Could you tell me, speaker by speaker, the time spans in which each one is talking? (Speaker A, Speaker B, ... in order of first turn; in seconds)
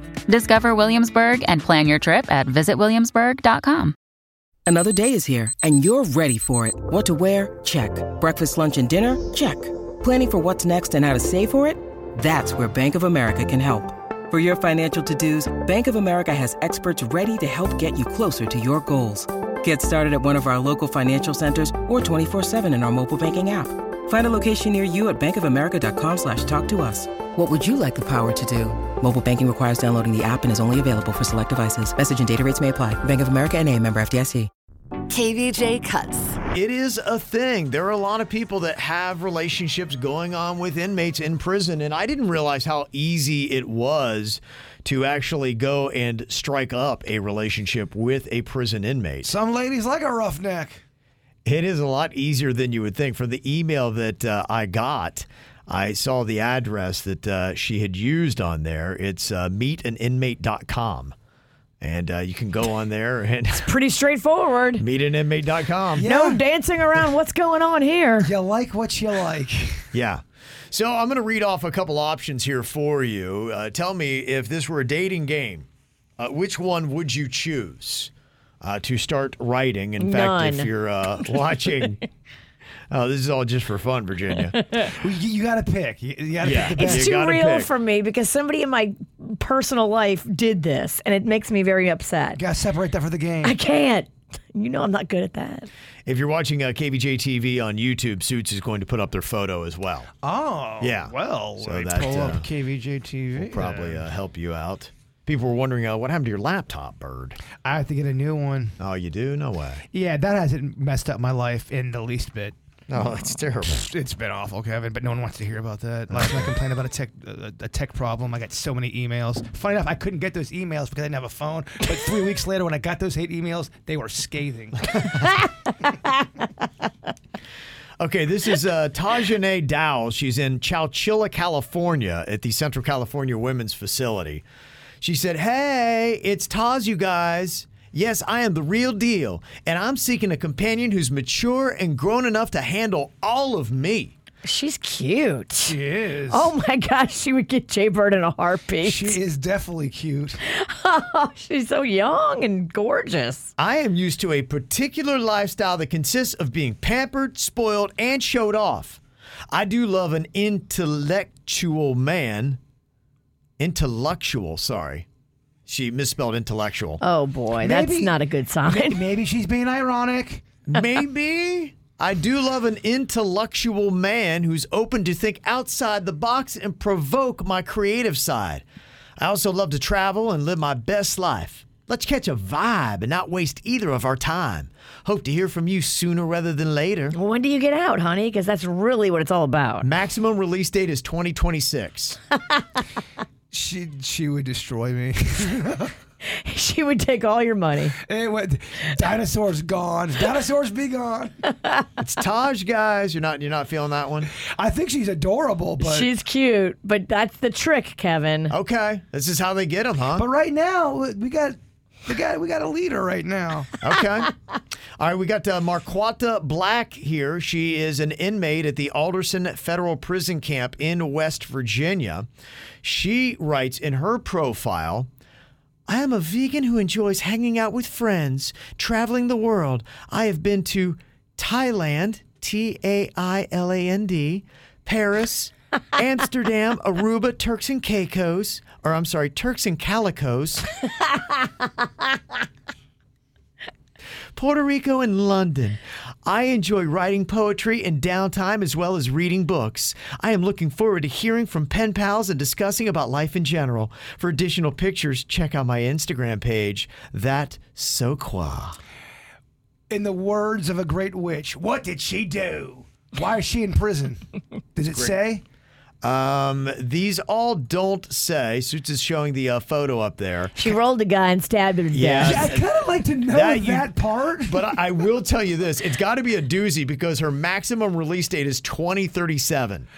Speaker A: 0.3-4.0
Speaker B: 4.7-34.5
Speaker C: 35.1-36.4, 63.6-64.8, 66.0-68.3, 80.0-80.7, 84.6-84.9, 86.7-92.4, 93.4-95.7, 144.4-145.8, 146.3-149.2, 150.4-153.5, 167.0-169.0, 187.1-189.9, 196.2-198.0, 201.5-201.8, 205.8-208.6, 270.6-272.6
Speaker D: 36.5-49.3, 51.5-61.1, 61.8-63.7, 64.8-66.1, 69.9-75.7, 76.2-82.0, 82.9-84.6, 86.4-87.7, 96.1-100.1, 100.8-102.5, 103.4-107.4, 108.8-109.8, 112.9-113.9, 116.1-116.5, 128.0-134.4, 135.0-144.1, 153.6-159.0, 159.5-162.6, 163.6-165.1, 165.7-167.0, 170.7-178.6, 179.2-187.2, 189.8-192.2, 202.0-204.3, 208.5-210.2, 213.8-214.3, 215.0-222.3, 222.8-225.1, 225.9-240.7, 244.4-258.8, 266.0-270.5, 271.9-272.6, 273.3-273.9, 274.5-279.9
Speaker E: 49.2-50.8, 66.0-66.4, 68.2-69.8, 84.9-87.1, 92.4-93.6, 100.2-104.1, 107.6-108.8, 109.9-112.6, 113.7-125.2, 145.7-146.5, 148.8-150.4, 167.6-170.4, 193.5-195.9, 198.0-201.4, 204.4-206.1, 210.2-211.6, 212.1-213.7, 259.9-264.2, 264.8-265.4, 272.2-274.7